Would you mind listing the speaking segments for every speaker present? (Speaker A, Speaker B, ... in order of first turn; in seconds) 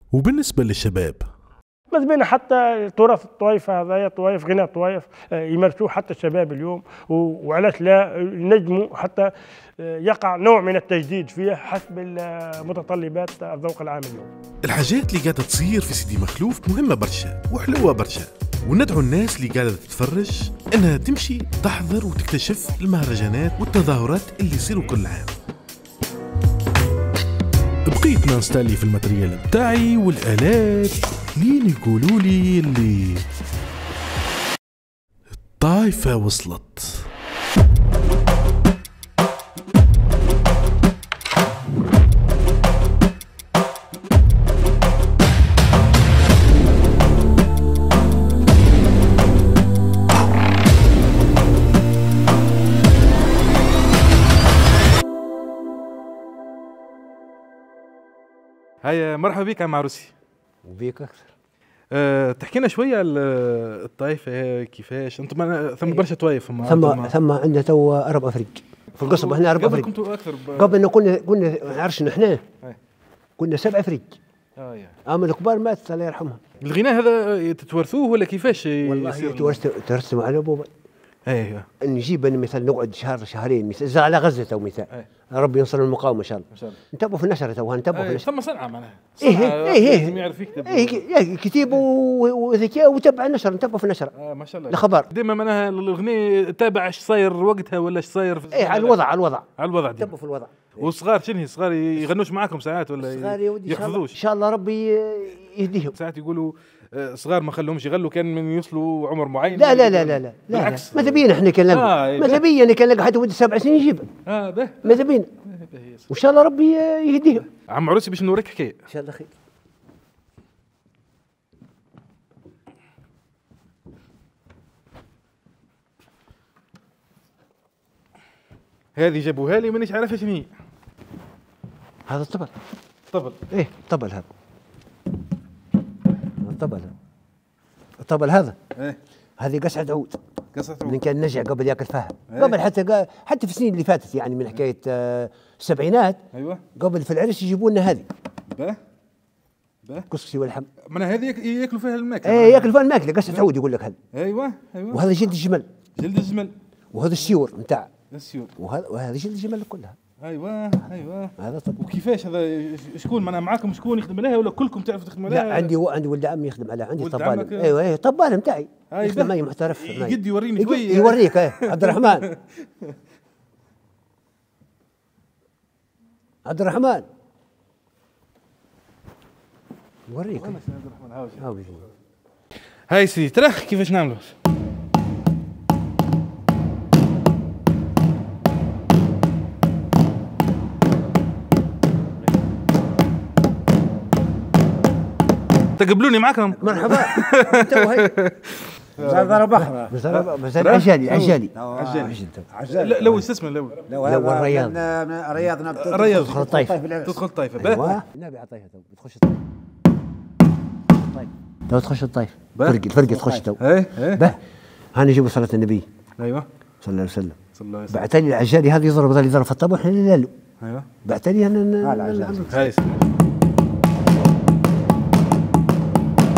Speaker A: 0.1-1.2, 14.6-25.4, 27.9-33.2, 35.6-37.1
Speaker B: 1.9-9.3, 9.8-14.3
Speaker C: 58.8-60.1, 61.9-67.1, 69.0-70.8, 74.6-75.0, 76.6-79.6, 86.5-86.8, 87.9-91.0, 94.2-99.0, 99.6-100.1, 100.8-104.2, 106.0-111.2, 111.8-112.4, 114.3-116.1, 117.6-118.8, 129.0-130.5, 133.1-133.4, 140.5-141.0, 142.3-142.6, 146.3-146.6, 148.5-148.8, 150.9-152.7, 154.1-155.1, 156.0-156.6, 158.1-158.5, 160.2-165.7, 167.0-167.7, 168.9-172.4, 180.4-181.4, 182.9-184.3, 195.8-199.4, 200.2-202.1, 202.8-203.8, 205.8-206.4, 207.0-207.9, 212.6-212.8, 213.6-214.3, 216.2-216.5, 217.6-218.0, 220.6-220.9, 222.5-223.0
Speaker D: 60.6-61.3, 66.6-69.9, 70.5-72.4, 73.4-74.2, 75.1-76.4, 78.8-80.7, 81.8-88.3, 89.2-94.1, 94.7-95.1, 98.5-100.9, 103.0-106.0, 109.5-114.1, 114.8-115.3, 116.1-117.5, 118.9-119.3, 132.1-132.5, 133.5-134.3, 136.4-136.9, 138.0-138.6, 139.4-140.2, 140.8-146.2, 146.8-148.1, 150.1-150.7, 152.2-154.0, 154.9-155.7, 156.9-157.9, 158.6-160.0, 161.4-161.8, 165.3-172.3, 176.4-177.1, 180.1-180.6, 181.4-181.9, 196.6-198.2, 199.9-202.5, 204.0-204.8, 206.1-206.8, 207.6-209.4, 211.2-214.4, 214.9-215.8, 216.8-217.4, 217.9-220.3, 221.1-222.7
Speaker E: 199.0-200.1, 201.1-203.3, 203.9-207.2, 221.8-222.7